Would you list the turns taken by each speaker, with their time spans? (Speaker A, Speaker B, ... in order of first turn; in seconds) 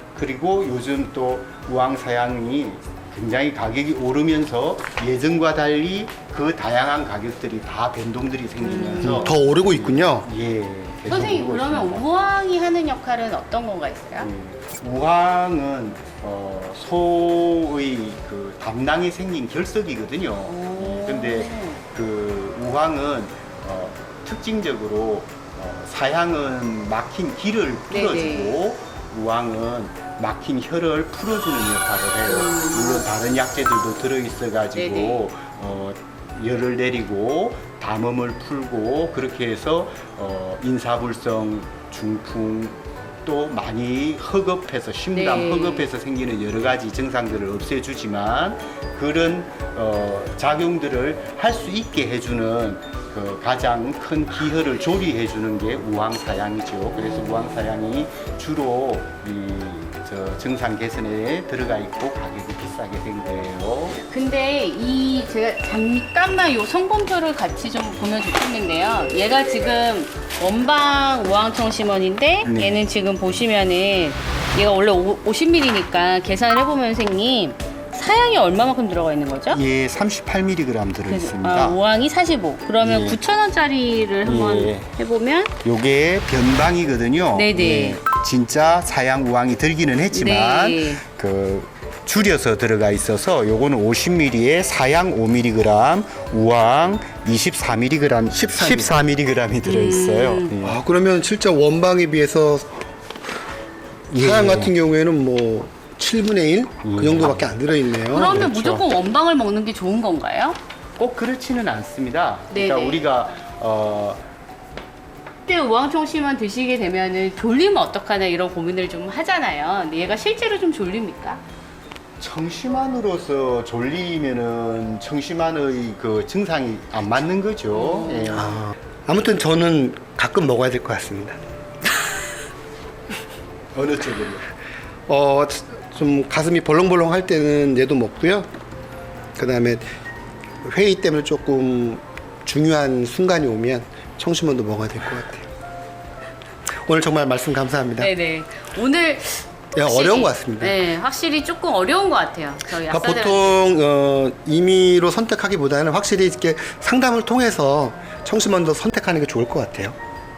Speaker A: 0.1-12.1, 14.2-64.0, 72.5-72.8, 79.5-81.8, 82.8-83.2, 84.2-84.9, 85.6-100.8, 104.1-104.7, 106.8-107.5, 108.1-108.8, 111.0-114.2, 122.2-128.6, 133.8-134.5
Speaker B: 8.6-9.4, 11.1-14.3, 20.4-21.8, 27.9-28.6, 32.3-33.1, 34.8-35.3, 45.1-45.9, 57.0-57.8, 64.0-79.6, 81.1-85.5, 87.3-88.0, 90.1-91.0, 99.6-100.5, 108.0-110.6, 112.5-113.0, 115.5-121.4, 127.7-128.6, 148.0-153.6
Speaker C: 9.0-10.3, 98.3-99.0, 100.6-102.8, 104.1-108.4, 128.3-131.4, 135.1-138.5, 139.4-139.8, 140.6-145.5, 146.8-148.1, 149.8-150.8, 152.9-160.0